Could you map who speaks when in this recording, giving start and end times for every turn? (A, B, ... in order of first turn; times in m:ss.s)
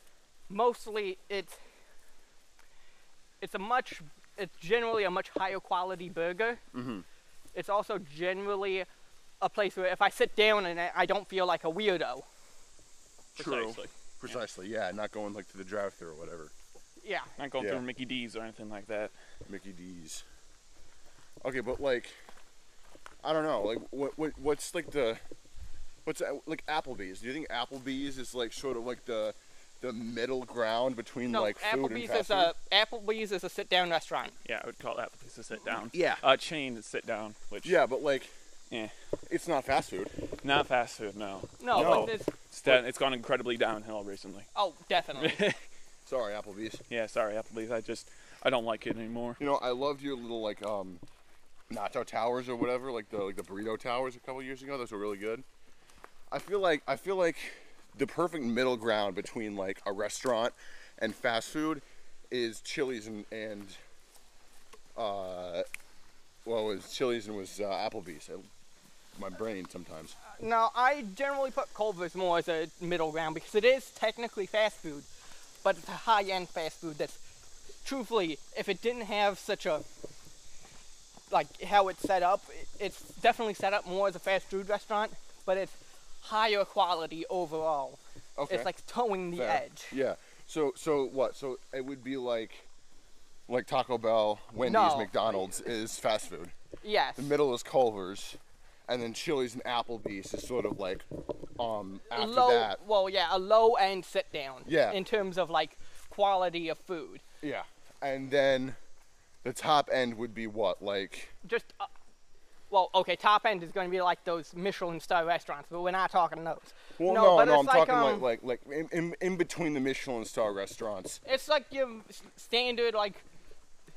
0:00.5-0:01.6 A
0:03.4-0:06.6 A
0:06.7-0:07.1 B
0:07.5-0:08.9 A
0:09.4-0:12.3 A
0:13.4-0:13.9 C
0:13.4-0:16.5 B
0:17.0-0:17.3 A
0:17.4-0:19.1 C
0:19.5-0:20.2 B
0:21.4-0:22.2 B
0:23.2-0:25.2 B
0:26.1-0:32.5 B
0:31.3-0:34.4 A
0:34.4-0:37.8 C
0:35.9-0:36.2 B
0:37.6-0:38.3 B
0:39.3-0:40.1 B
0:40.4-0:44.5 C
0:41.6-0:42.3 A
0:41.7-0:42.8 B
0:44.5-0:45.4 A
0:45.2-0:45.6 C
0:46.1-0:46.8 B
0:46.9-0:49.4 C
0:49.4-0:51.0 B
0:51.7-0:55.4 B
0:56.3-1:03.8 B
1:05.0-1:05.6 B
1:06.4-1:08.5 B
1:09.2-1:10.2 B
1:10.3-1:15.1 A
1:15.6-1:17.2 A
1:17.8-1:19.8 A
1:21.3-1:29.9 A
1:28.4-1:28.7 B
1:29.3-1:32.7 B
1:33.5-1:36.5 B
1:34.6-1:35.2 A
1:36.8-1:37.3 A
1:37.2-1:41.1 B
1:41.6-1:42.8 B
1:42.1-1:47.2 A
1:44.6-1:45.0 B
1:47.4-1:48.8 B
1:49.4-1:51.3 B
1:51.4-1:51.9 A
1:52.7-1:58.3 A
1:57.0-2:01.2 B
2:01.2-2:03.2 A